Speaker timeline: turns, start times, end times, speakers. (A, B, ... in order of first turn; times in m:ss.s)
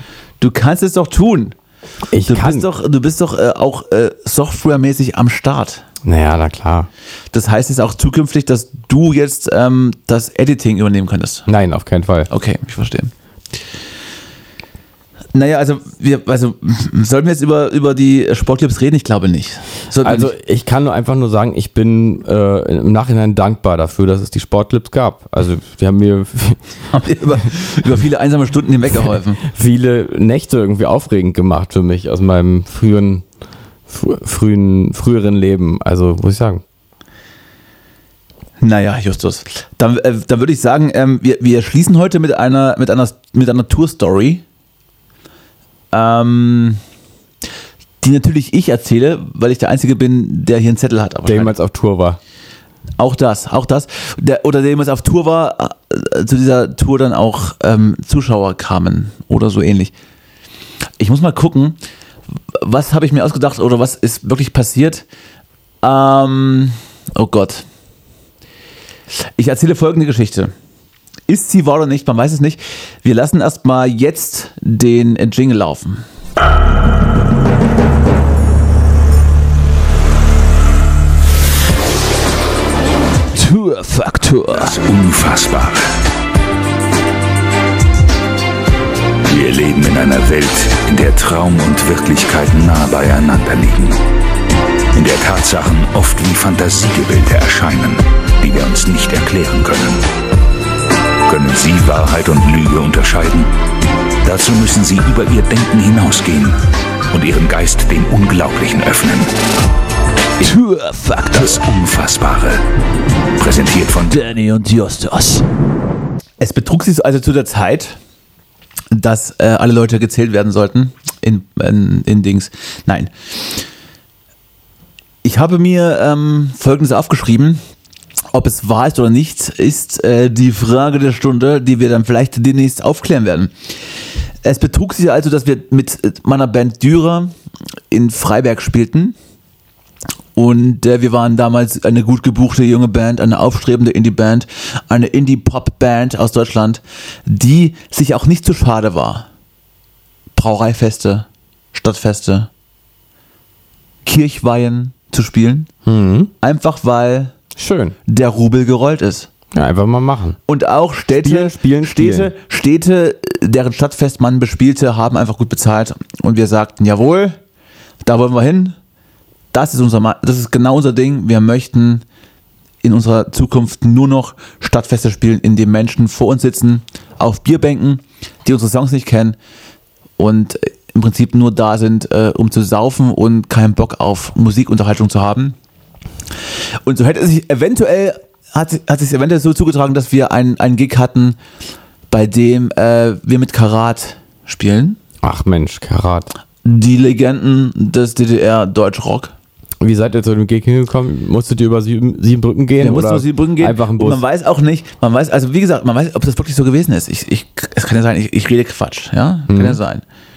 0:00.4-0:01.6 A
0:02.1-0:02.7 B
0:02.2-0:05.8 A
0:06.0-0:06.9 B
0:07.3-0:11.5 A
0:11.5-0:12.3 B
0:12.3-0:13.1 A
0:15.3-0:20.3 A
0:20.0-0:26.6 B
0:26.9-0:29.4 A
0:29.4-0:33.2 B
0:33.9-0:36.6 B
0:38.6-0:44.4 A
0:45.9-0:46.8 A
0:48.0-0:51.6 A
0:51.3-0:52.2 B
0:53.0-0:59.9 A
1:01.0-1:01.8 A
1:02.5-1:05.0 A
1:05.8-1:07.6 A
1:09.1-1:10.5 A
1:11.3-1:16.0 A
1:23.4-1:24.8 A
1:24.5-1:25.9 C
1:29.3-1:34.0 C
1:34.9-1:40.0 C
1:41.2-1:43.5 C
1:44.2-1:46.6 C
1:47.1-1:49.3 C
1:50.4-1:51.6 A
1:51.3-1:52.6 C
1:53.4-1:54.2 C
1:54.1-1:55.5 A
1:56.4-1:58.0 A
1:58.9-2:03.7 A
2:05.2-2:07.6 A
2:08.3-2:13.5 A
2:14.4-2:17.3 A
2:17.9-2:19.2 A
2:20.4-2:29.3 A
2:30.3-2:32.5 A
2:34.0-2:35.7 A
2:35.8-2:36.3 B
2:36.4-2:37.3 A
2:37.6-2:38.0 B
2:38.1-2:39.3 A
2:39.5-2:40.4 B
2:40.5-2:47.4 A
2:41.1-2:42.3 B
2:48.0-2:48.8 A
2:49.5-2:52.0 A
2:52.8-2:59.4 A
3:00.2-3:05.6 A
3:06.8-3:11.4 A
3:12.1-3:15.0 A
3:15.2-3:16.3 B
3:16.6-3:19.3 A
3:19.8-3:24.2 B
3:22.8-3:30.0 A
3:29.5-3:29.8 B